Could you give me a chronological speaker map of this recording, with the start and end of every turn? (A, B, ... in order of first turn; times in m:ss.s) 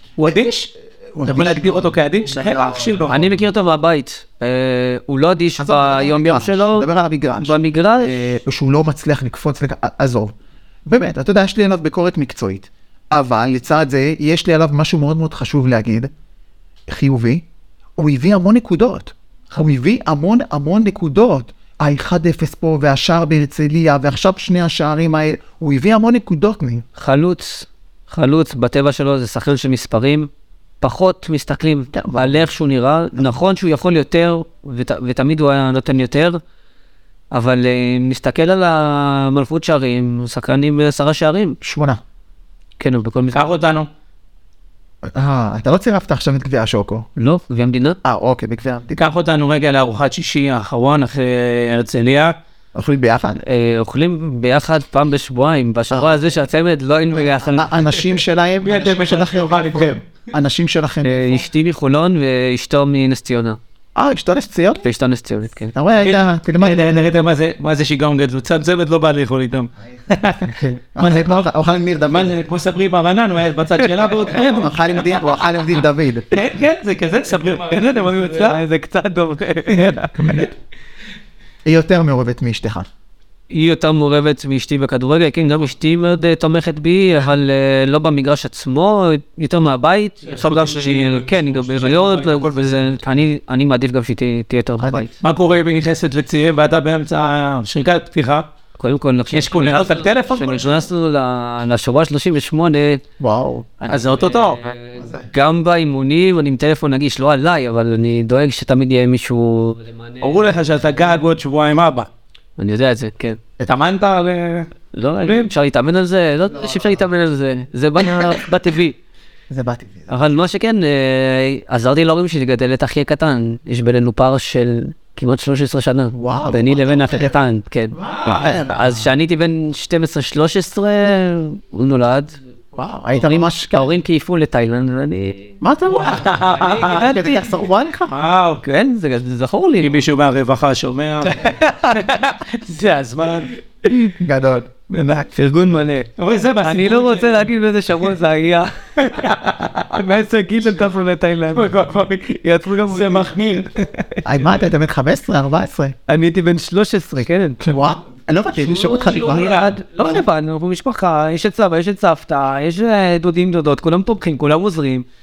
0:00.2-0:03.2 A
0:01.1-0:01.7 B
0:02.4-0:03.0 B
0:03.1-0:06.9 C
0:05.6-0:10.3 B
0:07.4-0:08.2 C
0:10.9-0:16.1 B
0:16.9-0:17.4 B
0:18.0-0:26.8 B
0:27.0-0:30.3 C
0:30.8-0:36.4 C
0:31.9-0:32.2 B
0:37.3-0:41.6 C
0:41.6-0:42.0 B
0:42.8-0:43.4 C
0:43.3-0:43.9 A
0:45.1-0:47.1 B
0:47.2-0:48.0 C
0:48.0-0:49.0 B
0:49.0-0:52.4 A
0:52.8-0:53.4 B
0:53.4-0:57.7 C
0:57.5-1:01.4 B
0:58.6-1:00.0 A
1:01.0-1:03.6 C
1:04.0-1:04.8 B
1:04.8-1:05.7 C
1:05.7-1:06.9 B
1:06.0-1:11.3 A
1:10.4-1:12.3 B
1:12.1-1:15.0 A
1:14.5-1:16.3 B
1:16.3-1:18.6 A
1:17.8-1:20.1 C
1:19.7-1:20.0 A
1:20.1-1:20.5 B
1:21.6-1:22.9 B
1:23.5-1:35.1 C
1:30.3-1:32.6 A
1:34.8-1:35.1 B
1:35.2-1:38.5 A
1:38.8-1:43.0 C
1:39.3-1:40.8 A
1:43.2-1:43.8 B
1:43.8-1:44.7 A
1:44.1-1:50.4 C
1:45.0-1:45.2 B
1:50.2-1:52.1 A
1:52.6-1:53.4 C
1:53.6-1:54.7 A
1:54.9-1:59.0 C
1:55.2-1:55.5 A
1:59.5-2:00.1 B
2:00.1-2:12.4 C
2:06.1-2:07.4 B
2:07.9-2:09.1 B
2:12.7-2:13.9 B
2:13.7-2:15.5 C
2:15.6-2:18.1 B
2:15.9-2:17.1 A
2:16.6-2:17.5 C
2:18.1-2:18.6 A
2:18.6-2:19.9 C
2:19.8-2:23.5 A
2:21.3-2:22.0 C
2:24.1-2:24.9 B
2:25.2-2:26.1 C
2:26.2-2:27.5 A
2:26.6-2:29.3 C
2:29.0-2:30.0 A
2:29.9-2:31.7 C
2:31.5-2:33.7 A
2:32.3-2:33.3 C
2:34.2-2:36.0 B
2:36.1-2:37.6 C
2:37.6-2:39.6 B
2:38.8-2:45.1 C
2:39.0-2:39.8 A